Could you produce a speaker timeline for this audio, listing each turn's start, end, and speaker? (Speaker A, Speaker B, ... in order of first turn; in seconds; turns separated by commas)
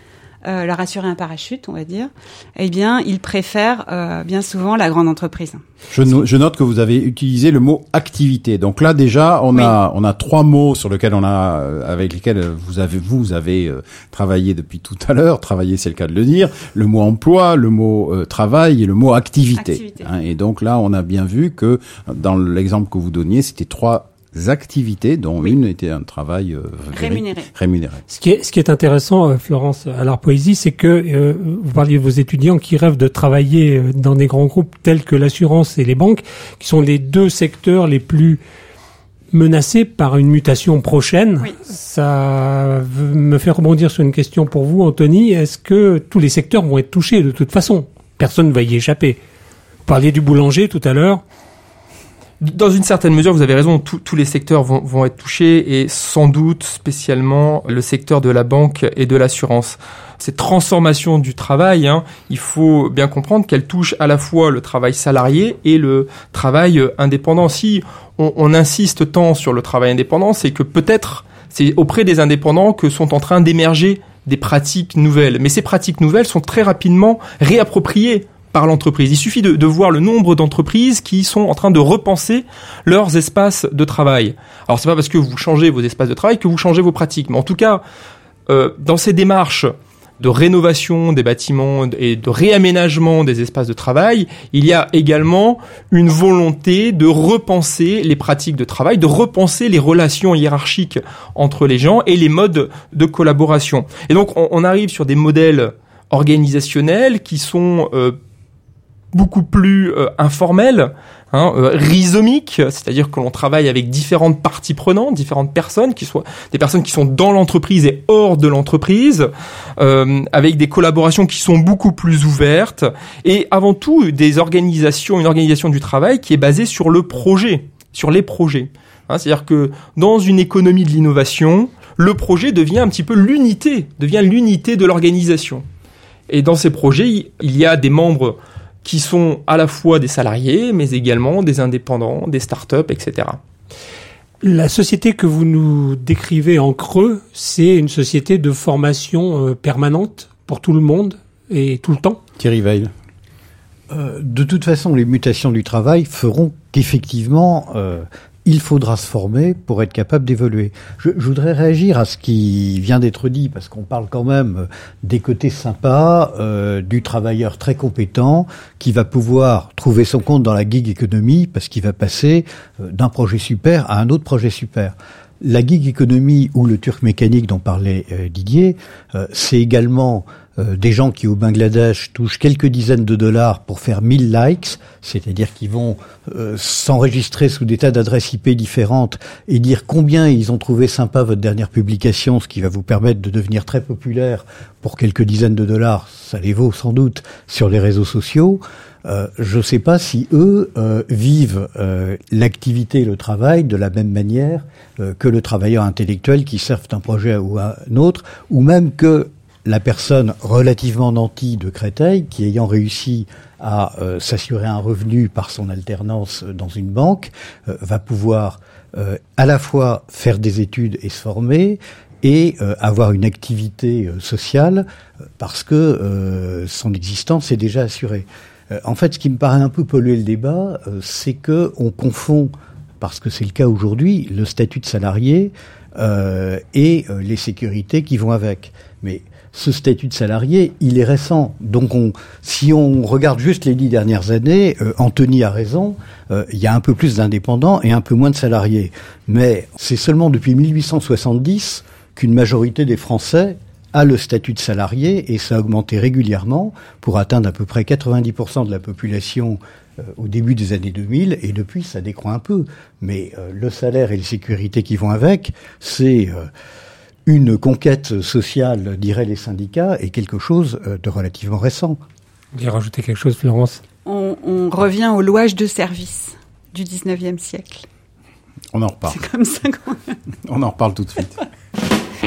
Speaker A: 0.5-5.6, Speaker B: 5.9-28.0, Speaker A: 19.6-20.1, Speaker A: 26.9-27.5, Speaker C: 28.1-38.4, Speaker C: 39.3-49.2, Speaker C: 49.9-51.2, Speaker D: 52.4-87.8, Speaker D: 88.5-108.2, Speaker D: 109.1-135.7, Speaker D: 136.3-143.4, Speaker C: 144.4-152.2, Speaker B: 152.4-152.9, Speaker E: 153.9-224.9, Speaker E: 225.4-266.5, Speaker E: 267.3-272.0, Speaker C: 272.6-273.8, Speaker A: 274.1-277.9, Speaker B: 278.7-279.2, Speaker A: 279.1-280.1, Speaker B: 280.5-281.3